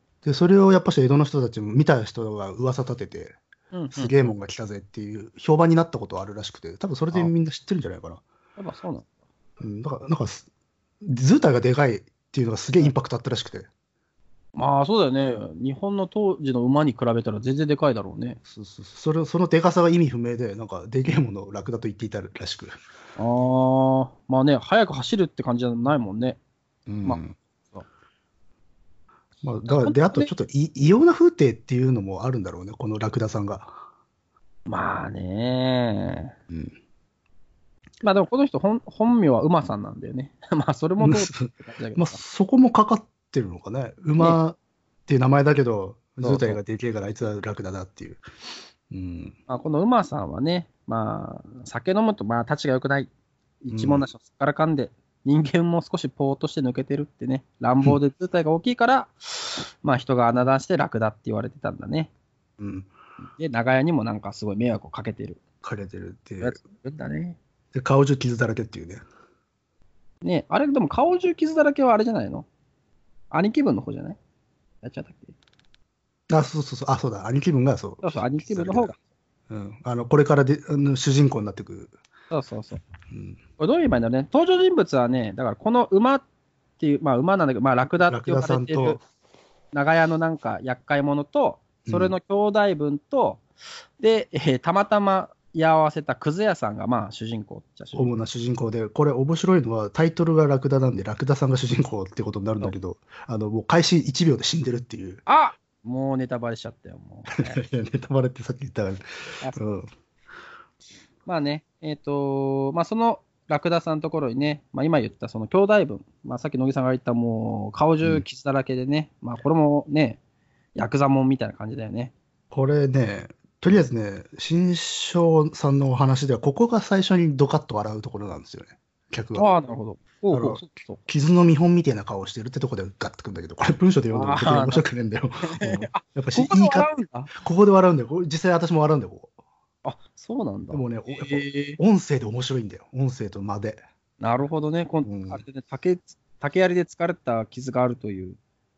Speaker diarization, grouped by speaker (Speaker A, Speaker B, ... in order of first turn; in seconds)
Speaker A: 0.2-3.4, 3.9-8.2, 9.6-10.5, 11.0-13.7, 18.5-22.8, 26.9-27.4, 29.4-33.8, 36.5-36.8, 41.0-48.2, 48.9-49.4, 53.7-54.1, 62.6-62.9, 65.6-66.6, 67.7-69.0, 76.3-78.9, 79.5-81.9, 83.1-83.4, 88.1-89.0, 91.9-92.2, 97.9-105.2, 107.3-109.0, 109.5-109.9, 122.5-129.5, 130.3-139.3, 140.7-143.8, 145.0-145.4
Speaker B: 3.7-4.3, 8.6-9.1, 14.6-18.4, 23.2-26.4, 27.1-27.9, 29.8-30.3, 34.7-36.4, 38.0-42.2, 46.2-46.6, 49.5-53.1, 53.6-62.1, 63.3-65.4, 66.4-67.4, 70.2-72.5, 73.3-74.2, 74.8-75.3, 78.0-79.0, 82.3-82.8, 83.6-86.2, 86.8-89.0, 89.7-93.4, 94.0-98.1, 105.3-107.6, 111.3-120.2, 120.8-122.1, 129.3-131.1, 134.1-134.8, 135.4-137.3, 139.8-141.8, 144.2-148.4